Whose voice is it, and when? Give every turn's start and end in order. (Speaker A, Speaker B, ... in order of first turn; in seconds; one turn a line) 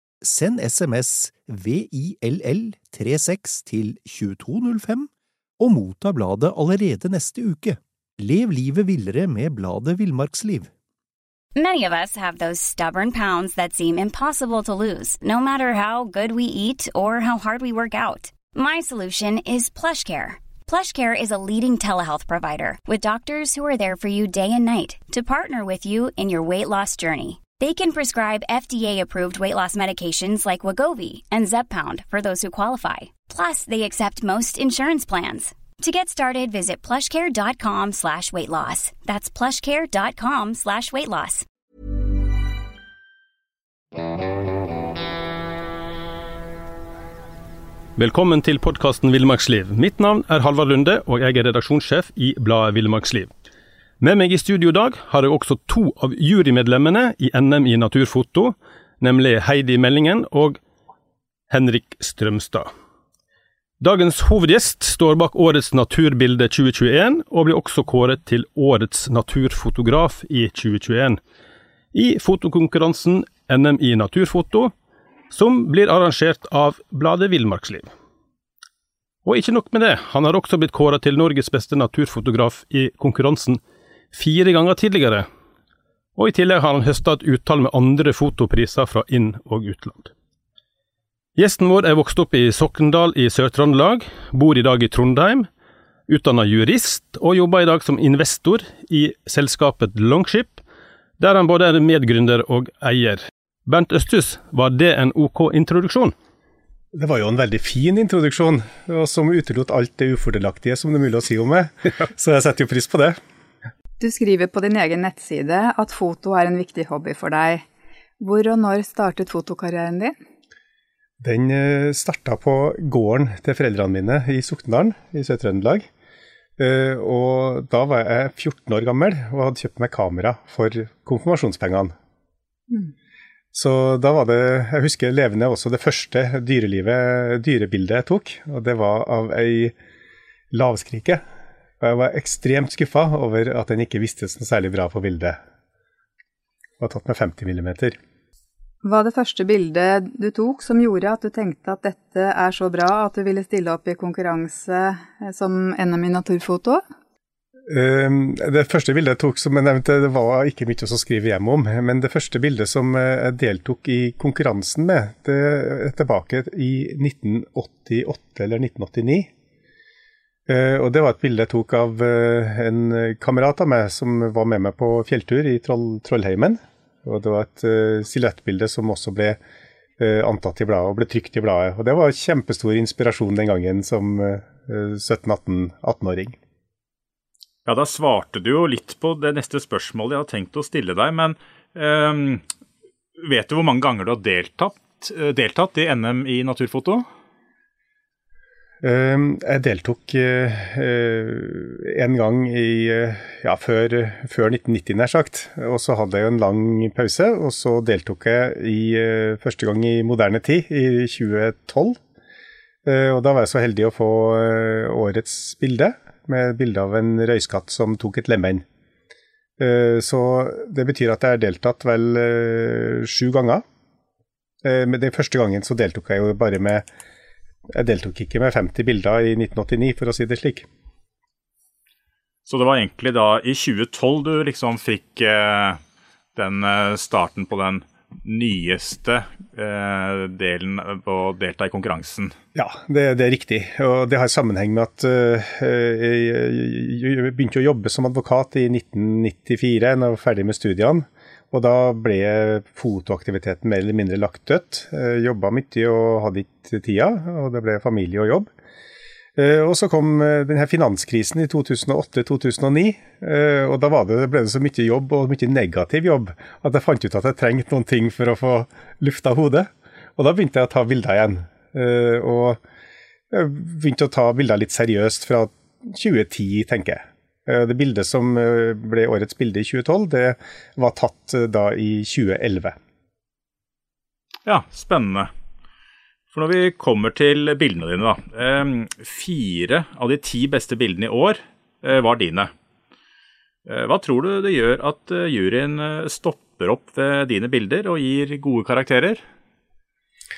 Speaker A: 0.2-10.7
Speaker B: 11.6-41.5
Speaker C: 48.0-53.3
Speaker C: 54.0-60.6
Speaker C: 61.5-62.7
Speaker C: 63.8-71.2
Speaker C: 71.9-74.7
Speaker C: 75.3-77.9
Speaker C: 79.2-83.6
Speaker C: 84.1-85.3
Speaker C: 86.2-90.1
Speaker C: 91.3-95.5
Speaker C: 96.1-100.6
Speaker C: 101.2-106.1
Speaker D: 106.9-113.2
Speaker E: 114.0-117.6
Speaker E: 118.2-120.1
Speaker D: 121.2-125.9
Speaker D: 126.6-131.9
Speaker D: 133.5-139.7
Speaker D: 140.5-141.2
Speaker D: 141.8-145.4
Speaker D: 146.8-148.0
Speaker E: 148.8-156.8
Speaker D: 157.7-169.3
Speaker D: 170.5-179.4
Speaker D: 180.0-186.4
Speaker F: 187.7-192.4
Speaker F: 193.2-197.1
Speaker D: 198.8-212.0
Speaker D: 212.8-218.6
Speaker D: 219.6-223.6
Speaker D: 224.6-226.8
Speaker D: 227.7-230.7
Speaker F: 232.4-235.8
Speaker F: 236.3-242.3
Speaker D: 242.5-258.5
Speaker D: 259.4-272.6
Speaker D: 273.3-282.8
Speaker F: 284.4-285.3
Speaker F: 286.3-292.5
Speaker F: 293.6-299.2